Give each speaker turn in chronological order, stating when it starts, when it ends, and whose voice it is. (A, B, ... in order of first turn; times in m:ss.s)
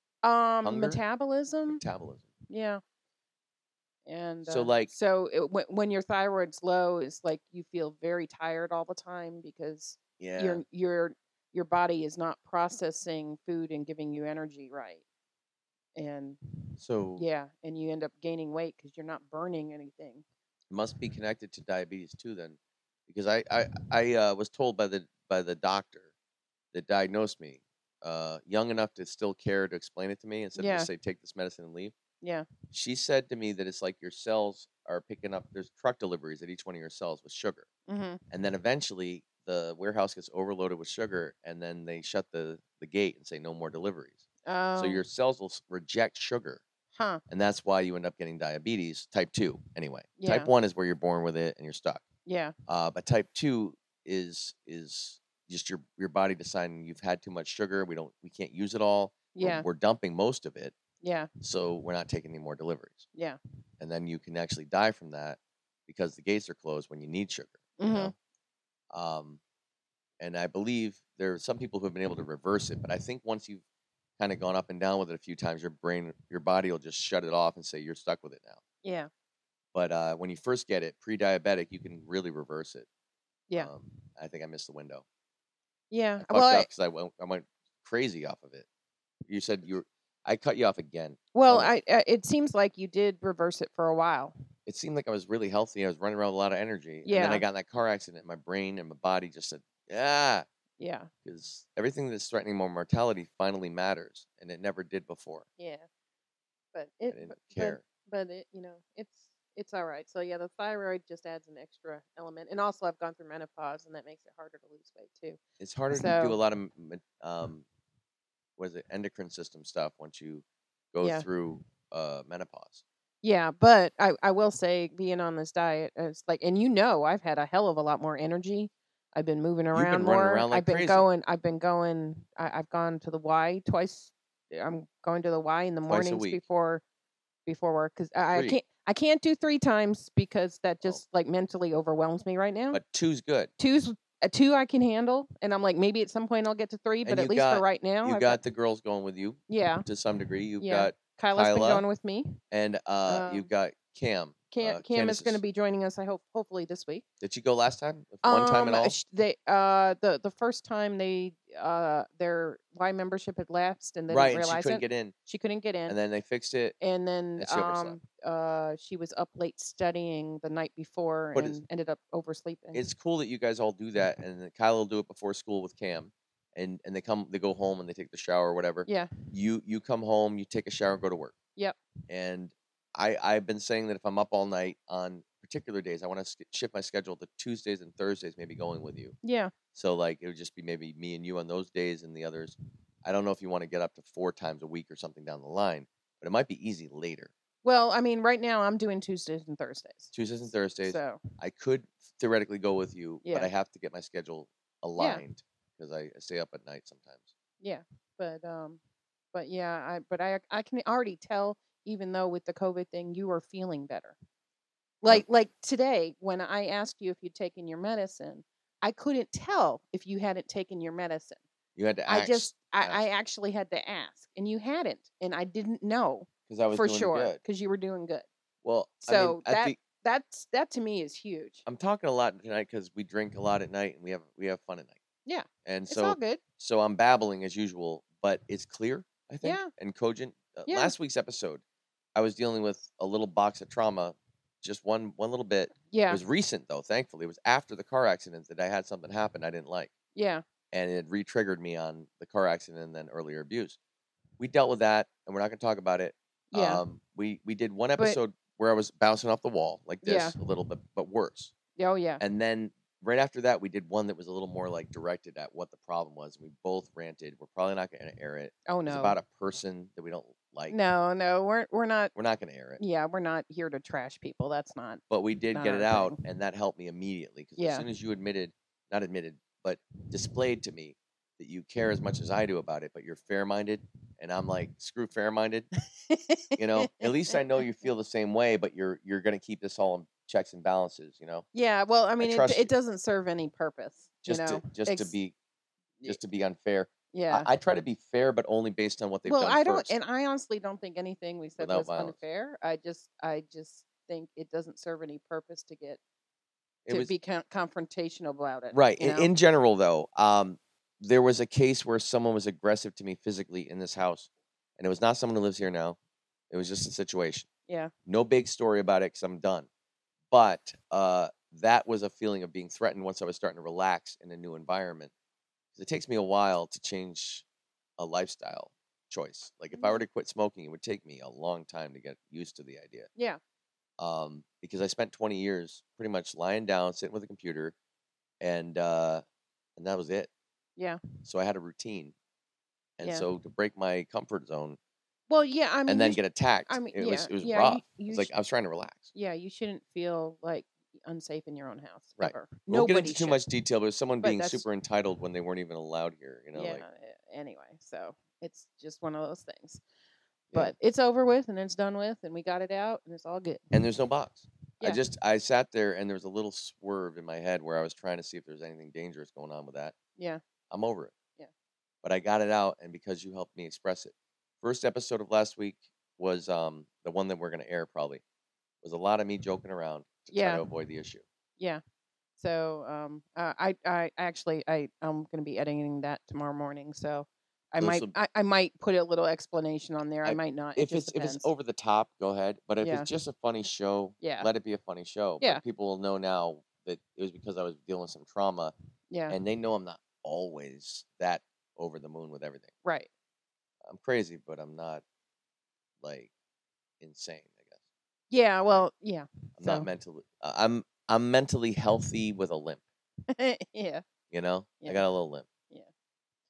0:00.2-0:01.8 A
0:00.6-0:01.0 B
0:01.7-0:02.3 B
0:02.5-0:02.8 A
0:04.0-0:15.0 A
0:04.4-0:04.9 B
0:10.2-0:10.6 B
0:15.9-0:16.4 A
0:16.8-0:17.2 B
0:17.2-0:20.2 A
0:20.7-0:26.1 B
0:26.7-0:31.9 B
0:30.6-0:30.9 A
0:32.2-0:32.5 A
0:32.7-0:37.7 B
0:37.9-0:38.2 A
0:38.3-0:44.2 B
0:44.4-0:45.0 A
0:44.8-0:46.6 B
0:46.9-0:47.2 A
0:47.3-0:52.0 B
0:50.2-0:50.5 A
0:52.2-0:52.5 A
0:52.7-1:00.8 B
0:59.3-0:59.6 A
1:01.0-1:01.3 A
1:01.4-1:03.1 B
1:03.8-1:08.1 B
1:07.8-1:08.1 A
1:08.9-1:09.4 B
1:10.2-1:13.6 B
1:14.2-1:18.6 B
1:18.8-1:19.1 A
1:19.7-1:22.9 B
1:23.6-1:25.0 B
1:25.9-1:26.7 A
1:26.2-1:28.7 B
1:29.3-1:31.7 B
1:31.3-1:34.3 A
1:34.6-1:40.4 B
1:37.0-1:37.4 A
1:40.8-1:41.1 A
1:41.2-1:45.4 B
1:45.6-1:45.9 A
1:46.7-1:55.4 A
1:47.1-1:47.8 B
1:55.6-1:57.6 B
1:55.9-1:56.4 A
1:58.6-2:02.8 B
2:01.0-2:01.3 A
2:03.2-2:16.8 A
2:09.7-2:11.0 B
2:15.9-2:16.4 B
2:17.4-2:22.8 A
2:18.3-2:18.6 B
2:22.7-2:23.5 B
2:23.6-2:28.4 A
2:27.0-2:31.8 B
2:29.5-2:29.8 A
2:30.6-2:32.4 A
2:32.5-2:35.4 B
2:33.1-2:33.5 A
2:34.5-2:37.0 A
2:37.2-2:38.9 B
2:38.2-2:46.0 A
2:44.1-2:45.1 B
2:45.9-2:46.8 B
2:46.8-2:52.8 A
2:47.4-2:48.0 B
2:51.3-2:51.6 B
2:52.7-3:01.4 B
2:58.8-2:59.1 A
3:02.1-3:09.2 B
3:09.2-3:09.5 A
3:09.7-3:17.3 B
3:17.6-3:20.1 A
3:20.1-3:27.3 B
3:20.8-3:21.2 A
3:23.2-3:23.5 A
3:25.0-3:25.2 A
3:27.6-3:28.8 A
3:29.3-3:34.2 A
3:35.0-3:41.4 A
3:41.8-3:43.0 B
3:42.1-3:48.2 A
3:46.5-3:47.4 B
3:48.6-3:49.8 B
3:49.0-3:51.6 A
3:51.6-3:55.0 B
3:55.2-3:56.4 A
3:55.6-4:01.6 B
3:59.4-3:59.7 A
4:00.7-4:00.9 A
4:02.1-4:09.9 B
4:05.9-4:06.2 A
4:10.1-4:10.4 A
4:10.7-4:13.8 B
4:14.4-4:21.5 B
4:16.5-4:16.8 A
4:20.0-4:20.4 A
4:21.8-4:22.2 A
4:22.2-4:30.8 B
4:28.7-4:29.2 A
4:30.7-4:32.1 A
4:32.1-4:32.8 B
4:32.8-4:36.2 A
4:35.1-4:45.7 B
4:37.6-4:37.8 A
4:46.0-4:47.4 A
4:46.6-4:51.4 B
4:51.5-4:55.1 A
4:52.2-4:52.7 B
4:54.2-4:55.3 B
4:56.0-4:59.9 B
4:57.1-4:57.5 A
4:59.2-5:06.0 A
5:01.6-5:02.2 B
5:06.8-5:07.1 B
5:06.9-5:09.3 A
5:08.7-5:16.0 B
5:16.5-5:17.5 B
5:18.1-5:19.7 B
5:20.3-5:25.1 B
5:25.7-5:27.4 B
5:28.0-5:33.1 B
5:29.7-5:30.0 A
5:34.0-5:37.7 B
5:38.4-5:39.2 B
5:39.8-5:40.3 B
5:40.8-5:41.0 A
5:41.2-5:42.1 B
5:43.0-5:44.8 B
5:45.3-5:48.3 A
5:45.9-5:49.1 B
5:49.1-5:53.4 A
5:52.2-5:56.8 B
5:54.2-5:54.6 A
5:56.5-5:59.8 A
6:00.5-6:03.7 A
6:03.7-6:09.9 B
6:10.2-6:10.4 A
6:10.7-6:11.1 B
6:12.0-6:18.2 B
6:18.8-6:21.2 B
6:20.3-6:20.6 A
6:22.4-6:31.5 A
6:27.8-6:28.1 B
6:30.2-6:38.7 B
6:32.8-6:33.1 A
6:34.2-6:34.5 A
6:39.1-6:39.4 A
6:39.3-6:42.7 B
6:42.8-6:43.1 A
6:43.8-6:45.0 B
6:46.0-6:46.3 B
6:47.0-6:47.8 B
6:48.3-6:49.9 A
6:49.6-6:52.8 B
6:53.3-6:54.0 A
6:54.3-6:55.5 B